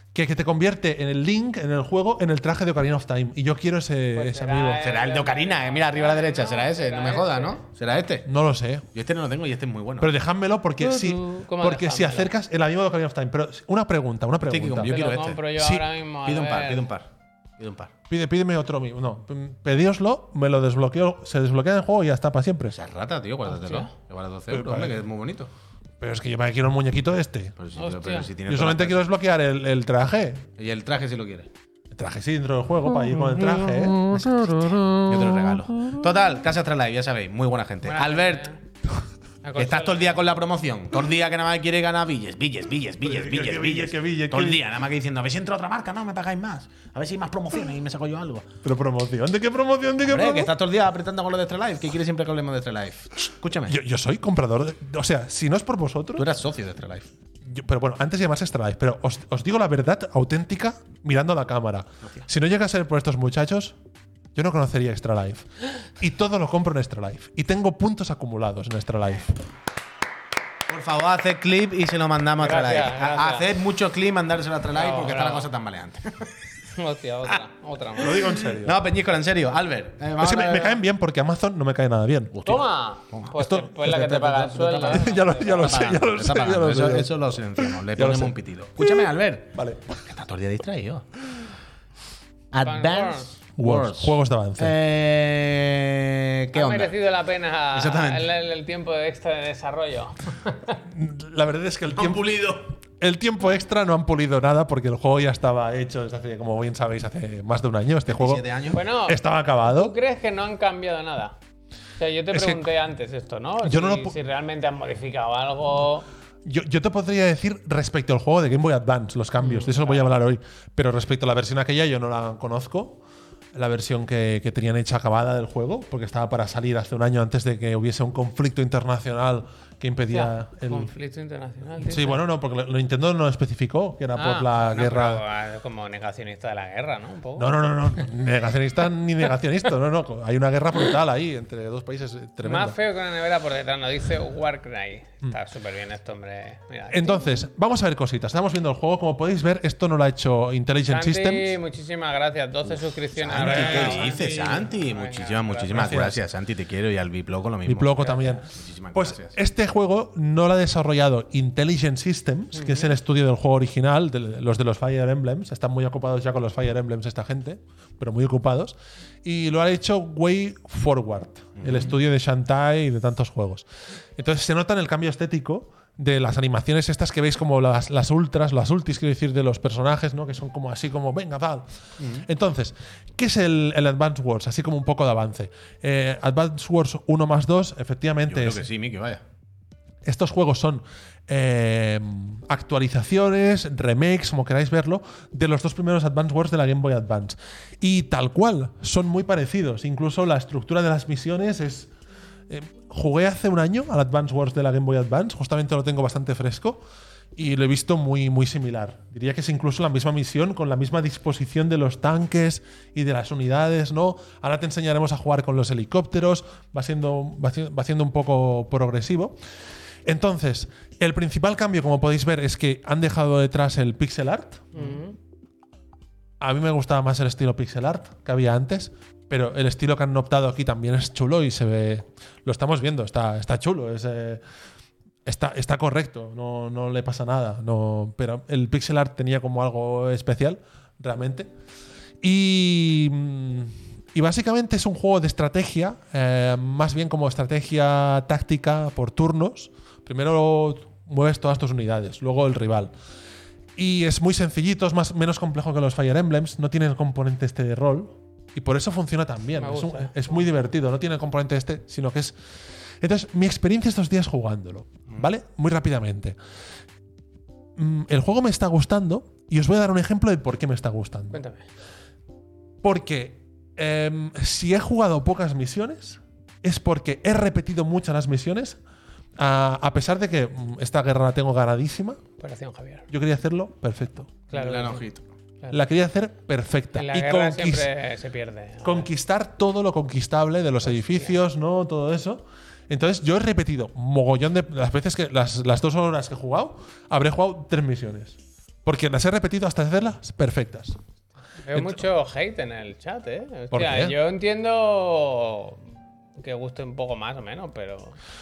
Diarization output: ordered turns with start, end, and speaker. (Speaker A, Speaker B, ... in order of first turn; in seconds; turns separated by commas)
Speaker A: 0.1-4.8, Speaker B: 4.1-7.6, Speaker C: 4.8-8.3, Speaker A: 8.2-8.8, Speaker C: 8.9-10.1, Speaker A: 10.0-15.0, Speaker B: 10.8-12.3, Speaker C: 14.5-15.5, Speaker B: 14.8-16.8, Speaker A: 15.6-15.8, Speaker C: 16.2-17.9, Speaker A: 18.1-22.8, Speaker C: 22.7-25.5, Speaker B: 23.5-23.9, Speaker A: 24.5-25.0, Speaker A: 26.0-27.6, Speaker C: 27.6-29.0, Speaker B: 27.7-28.3, Speaker A: 28.4-30.5, Speaker C: 30.6-31.5, Speaker A: 31.9-35.6, Speaker C: 34.0-38.5, Speaker B: 37.8-38.6, Speaker B: 39.4-40.2, Speaker C: 39.6-48.5, Speaker A: 43.0-44.6, Speaker A: 48.6-50.5, Speaker C: 50.0-53.8, Speaker A: 53.7-56.3, Speaker C: 56.2-57.1, Speaker A: 57.4-63.8, Speaker A: 64.3-69.3, Speaker C: 70.7-76.3, Speaker B: 72.4-73.5, Speaker B: 74.7-75.5, Speaker B: 76.7-78.3, Speaker A: 78.0-78.8, Speaker C: 78.2-80.8, Speaker A: 80.2-82.5, Speaker C: 82.3-91.0, Speaker B: 82.5-85.8, Speaker A: 83.3-84.0, Speaker A: 84.9-90.0, Speaker C: 92.5-96.9, Speaker B: 92.6-93.3, Speaker A: 93.6-94.8, Speaker B: 96.5-100.8, Speaker C: 97.7-98.3, Speaker A: 100.9-102.2, Speaker C: 101.9-102.7, Speaker A: 103.0-108.4, Speaker C: 108.1-108.8, Speaker B: 108.7-111.3, Speaker A: 109.1-109.9, Speaker B: 112.0-116.0, Speaker A: 112.3-112.6, Speaker A: 113.6-114.1, Speaker A: 116.4-123.0, Speaker B: 119.4-120.0, Speaker A: 123.5-130.9, Speaker B: 130.1-132.2, Speaker A: 131.8-135.2, Speaker B: 134.1-138.1, Speaker A: 137.4-142.8, Speaker B: 142.4-147.4, Speaker A: 146.9-151.6, Speaker B: 150.9-155.7, Speaker C: 153.2-159.4, Speaker A: 153.3-154.2, Speaker A: 155.7-156.2, Speaker A: 157.7-173.7, Speaker B: 158.0-158.4, Speaker B: 162.5-162.9, Speaker C: 171.6-171.9, Speaker A: 174.2-181.7, Speaker C: 182.0-182.2, Speaker A: 182.2-188.6, Speaker C: 188.3-189.2, Speaker A: 190.0-201.9, Speaker A: 202.5-206.8, Speaker A: 207.3-219.4, Speaker A: 220.0-225.0, Speaker B: 224.7-225.2, Speaker A: 226.4-234.4, Speaker A: 235.2-241.5, Speaker A: 242.2-252.9, Speaker A: 253.8-262.4, Speaker B: 259.6-260.4, Speaker A: 263.0-266.4, Speaker A: 267.8-271.4, Speaker B: 271.3-271.6, Speaker A: 272.8-278.8, Speaker A: 279.4-282.2, Speaker B: 282.4-283.1, Speaker A: 283.1-284.4, Speaker B: 284.5-285.0, Speaker C: 284.5-285.2, Speaker A: 285.7-287.9, Speaker B: 286.9-289.1, Speaker A: 288.8-301.0, Speaker B: 290.9-291.3, Speaker B: 301.6-308.1, Speaker A: 301.7-302.0, Speaker A: 303.7-304.1